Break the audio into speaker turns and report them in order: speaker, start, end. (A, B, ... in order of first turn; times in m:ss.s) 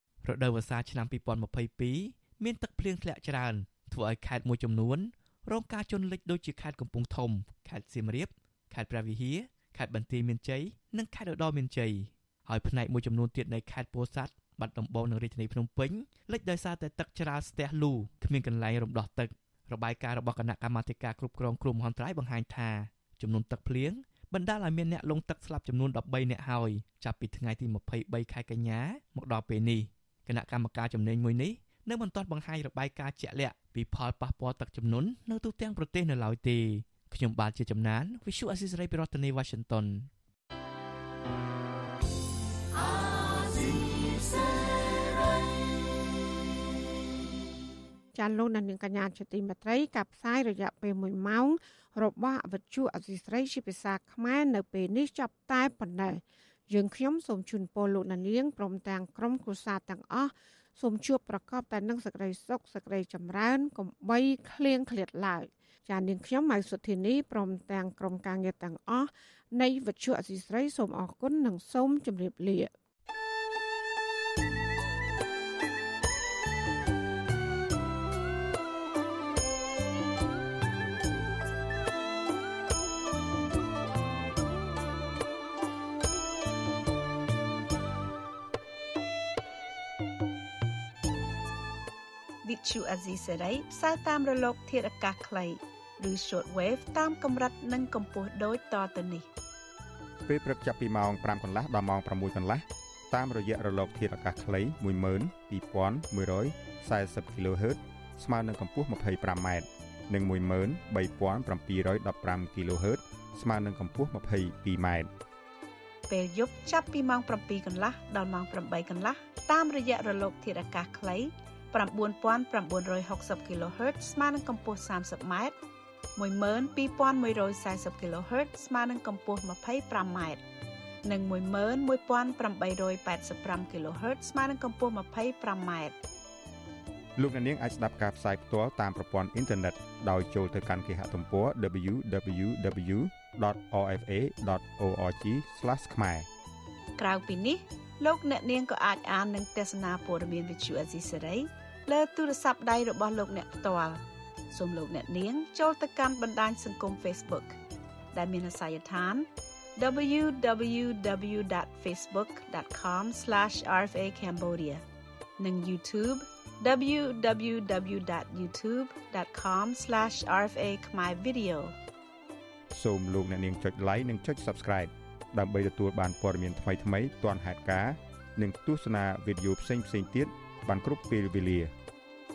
0:00.2-0:40.1 A
0:48.1-1:12.7 B
1:32.4-1:39.3 C
1:40.2-1:55.1 D
1:56.1-2:05.5 C
2:06.1-2:10.4 C
2:11.0-2:16.0 C
2:17.2-2:26.3 D
2:27.0-2:37.6 C
2:38.1-2:44.8 C
2:45.4-2:51.7 C
2:52.7-3:01.7 D